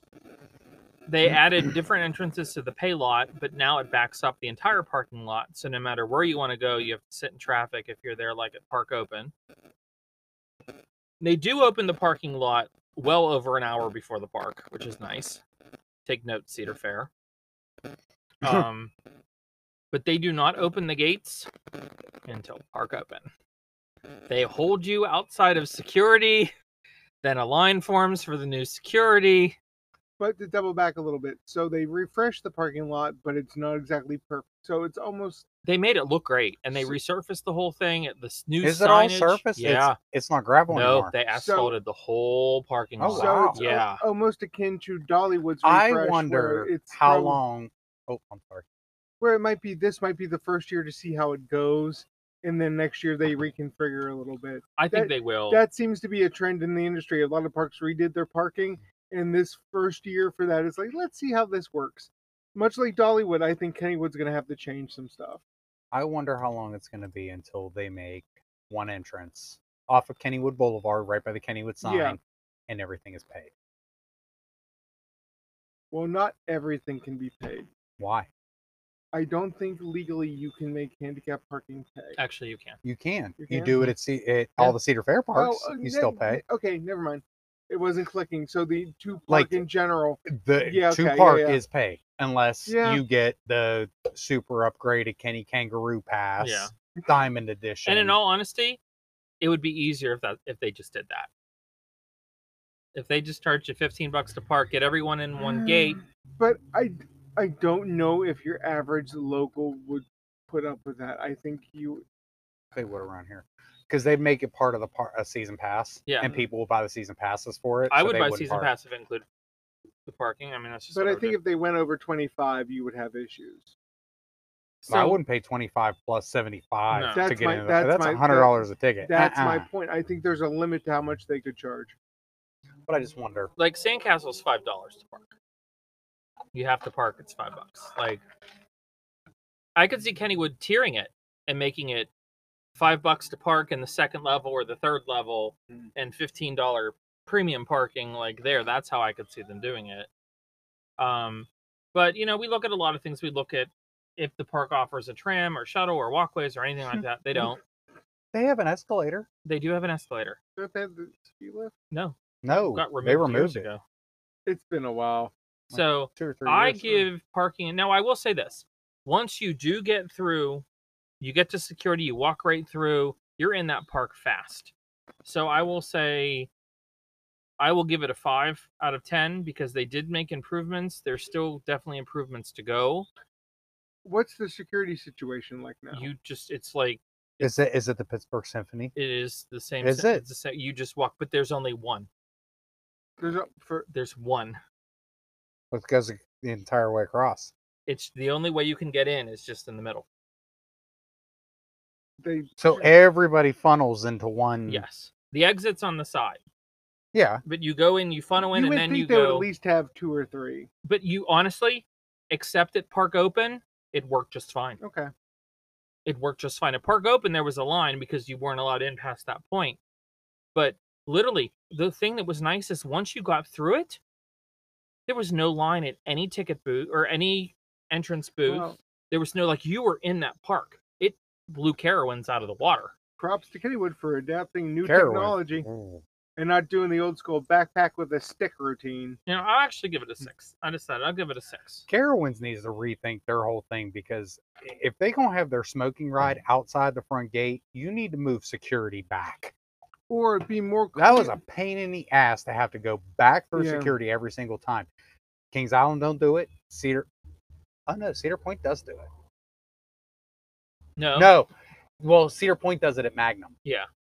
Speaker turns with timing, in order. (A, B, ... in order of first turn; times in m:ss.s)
0:01.1-0:09.3 A
0:11.2-0:15.4 A
0:16.0-0:17.1 A
0:18.4-0:18.9 A
0:19.9-0:21.5 A
0:22.3-0:23.3 A
0:24.3-0:26.5 A
0:27.2-0:29.6 A
0:30.2-0:35.4 B
0:35.6-0:40.0 A
0:38.6-0:41.1 C
0:40.7-0:44.0 A
0:41.3-0:41.8 B
0:43.0-0:43.6 C
0:43.1-0:47.4 B
0:45.6-0:48.6 C
0:49.2-1:05.4 B
0:54.8-0:55.6 A
1:05.9-1:13.5 C
1:11.8-1:12.2 B
1:15.9-1:17.7 B
1:18.0-1:18.3 C
1:19.1-1:22.2 B
1:22.2-1:22.8 A
1:22.8-1:26.4 C
1:23.4-1:23.8 B
1:25.3-1:31.6 B
1:29.3-1:29.6 C
1:30.3-1:38.2 C
1:32.7-1:33.0 B
1:36.4-1:36.7 A
1:37.8-1:38.8 A
1:39.4-1:41.3 A
1:42.9-1:46.0 A
1:45.4-1:52.0 B
1:52.7-1:58.7 C
1:56.1-1:56.3 A
1:57.9-1:59.2 A
2:00.0-2:01.4 A
2:00.9-2:03.7 B
2:04.8-2:05.2 A
2:04.9-2:09.7 C
2:06.9-2:07.3 A
2:07.1-2:11.9 B
2:12.9-2:13.5 C
2:13.6-2:15.3 A
2:16.5-2:18.2 A
2:19.8-2:22.1 A
2:22.7-2:30.1 A
2:31.0-2:37.6 A
2:38.3-2:39.3 C
2:39.4-2:40.4 A
2:40.6-2:41.7 B
2:41.9-2:43.8 A
2:42.4-2:43.7 C
2:44.4-2:45.3 B
2:45.7-2:47.0 C
2:45.7-2:50.6 A
2:51.2-2:54.7 A
2:55.2-2:56.5 A
2:57.6-3:03.1 A
3:04.0-3:06.1 B
3:05.9-3:07.5 A
3:07.4-3:08.9 C
3:08.9-3:12.1 A
3:09.8-3:10.2 C
3:13.2-3:13.9 B
3:13.9-3:14.6 A
3:15.7-3:17.5 C
3:17.9-3:20.0 A
3:22.2-3:22.9 B
3:22.6-3:24.8 C
3:24.7-3:26.4 A
3:27.1-3:27.4 C
3:27.4-3:29.5 A
3:28.5-3:30.7 B
3:30.8-3:34.8 A
3:34.8-3:35.1 B
3:36.0-3:39.8 A
3:40.5-3:44.0 A
3:45.1-3:52.9 A
3:48.4-3:48.8 B
3:53.2-3:55.7 B
3:54.8-3:56.0 C
3:56.4-3:59.2 B
3:59.3-4:01.8 A
4:01.9-4:09.5 C
4:10.1-4:11.4 B
4:11.0-4:14.9 C
4:13.5-4:13.9 B
4:15.5-4:17.1 C
4:17.9-4:19.1 C
4:21.0-4:21.3 A
4:21.1-4:23.5 C